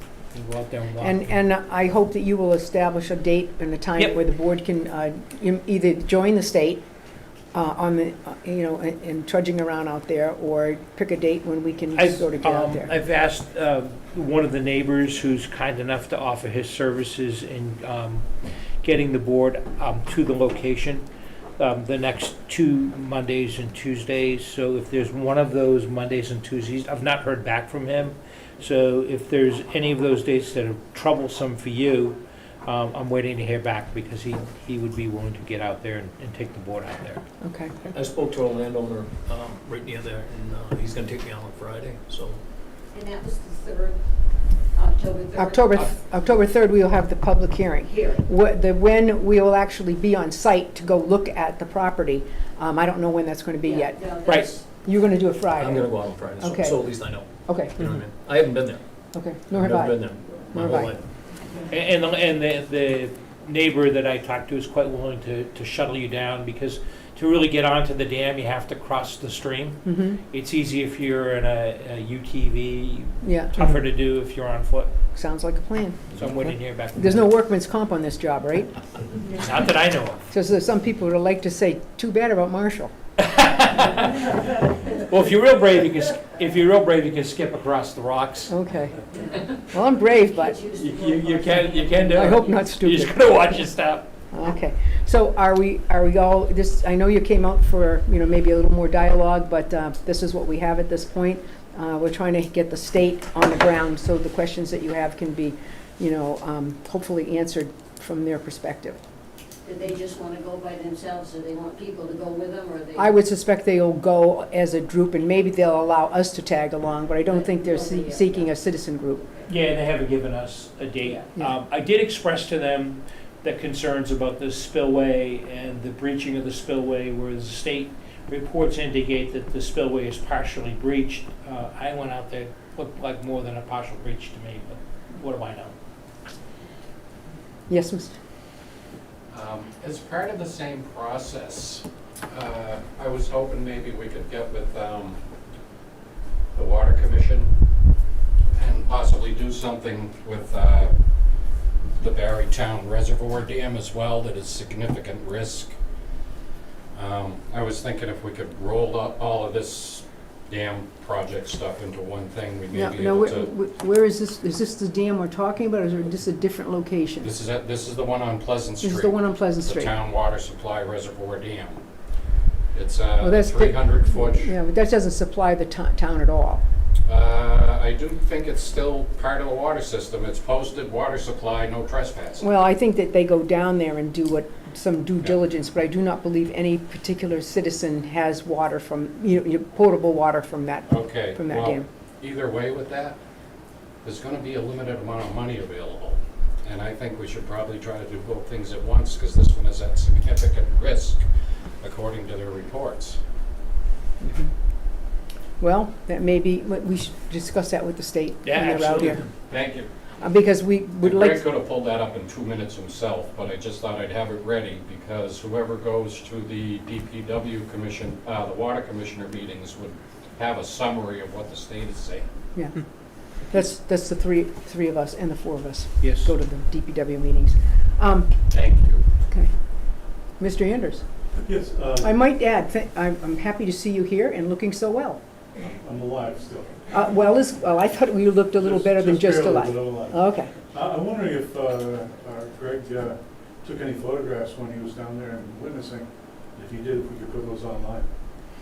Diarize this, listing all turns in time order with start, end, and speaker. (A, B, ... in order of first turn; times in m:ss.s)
0:00.3-0:01.2 A
0:01.0-0:06.8 B
0:07.5-0:12.9 B
0:12.0-0:21.0 A
0:21.6-0:37.2 A
0:37.4-0:37.8 B
0:37.9-0:42.4 C
0:42.9-0:44.0 D
0:44.7-0:45.9 D
0:45.4-0:54.0 B
0:47.8-0:48.2 D
0:53.6-0:54.6 D
0:54.2-0:54.5 A
0:54.7-0:56.8 B
0:55.6-0:58.8 C
0:57.4-0:57.8 B
0:59.1-1:00.0 B
0:59.5-1:01.0 C
1:00.5-1:01.0 B
1:01.7-1:14.9 A
1:09.8-1:10.2 B
1:13.2-1:13.6 B
1:15.1-1:16.0 B
1:16.1-1:17.3 A
1:16.9-1:18.7 B
1:19.4-1:20.2 A
1:20.3-1:22.9 B
1:23.2-1:28.5 A
1:28.5-1:29.0 B
1:29.1-1:29.4 D
1:29.6-1:30.6 B
1:30.3-1:32.5 D
1:30.7-1:34.1 A
1:32.1-1:33.2 B
1:34.3-1:49.0 B
1:49.6-1:53.1 D
1:53.0-1:59.2 B
1:57.2-1:58.5 D
1:59.1-1:59.5 D
1:59.4-2:15.7 A
2:17.7-2:18.1 B
2:19.3-2:25.2 E
2:26.5-2:27.6 E
2:28.5-2:30.9 E
2:32.0-2:35.8 E
2:36.9-2:43.5 E
2:42.7-2:47.3 B
2:47.2-2:51.8 E
2:48.8-2:49.9 B
2:52.7-2:54.5 E
2:53.2-2:56.6 B
2:57.0-3:02.5 E
3:02.4-3:11.8 B
3:10.9-3:13.2 E
3:14.0-3:21.2 E
3:21.8-3:23.2 E
3:24.2-3:24.5 B
3:25.6-3:29.2 B
3:28.4-3:29.2 A
3:29.5-3:29.9 E
3:30.2-3:31.4 B
3:31.0-3:42.3 E
3:43.5-3:48.3 B
3:46.0-3:46.3 A
3:48.5-3:49.0 E
3:50.4-3:51.0 B
3:51.4-3:52.1 F
3:52.0-3:55.2 B
3:55.6-3:56.9 F
3:56.9-4:00.5 B
3:58.6-4:08.0 F